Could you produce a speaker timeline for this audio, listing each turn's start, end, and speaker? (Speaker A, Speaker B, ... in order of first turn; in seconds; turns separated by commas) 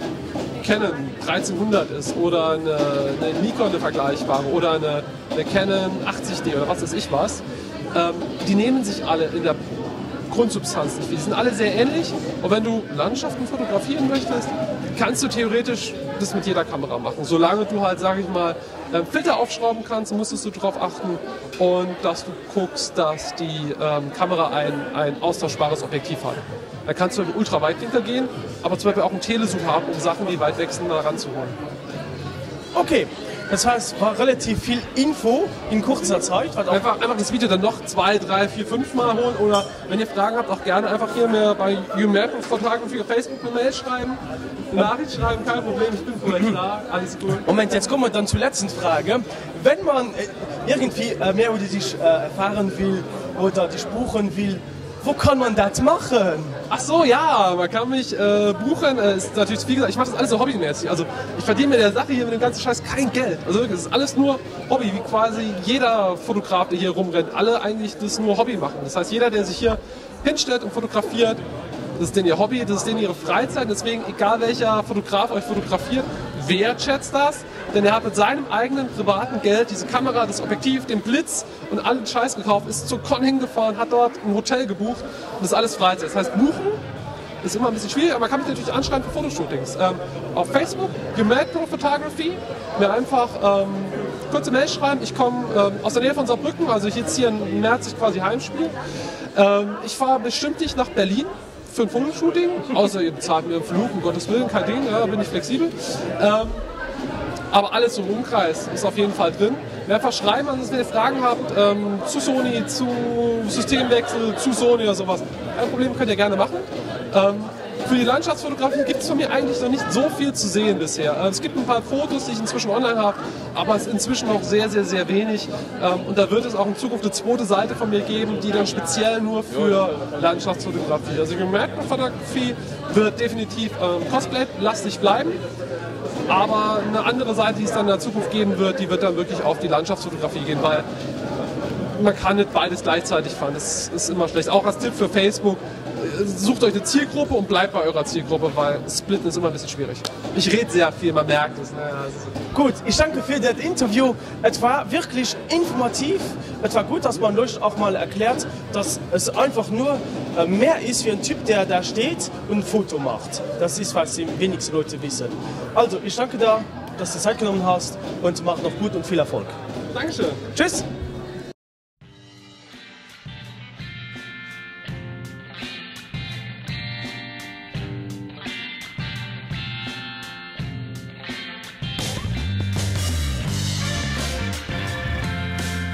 Speaker A: 0.6-9.6, Speaker A: 10.3-31.6, Speaker B: 32.7-36.9, Speaker A: 36.7-44.2, Speaker A: 44.7-47.5, Speaker B: 47.4-56.6, Speaker A: 56.7-71.4, Speaker A: 72.0-86.8, Speaker A: 87.4-98.8, Speaker A: 99.3-106.6, Speaker A: 107.5-135.4, Speaker A: 136.3-140.8, Speaker A: 141.9-152.3, Speaker B: 152.5-169.5, Speaker A: 169.9-170.4, Speaker B: 170.5-170.8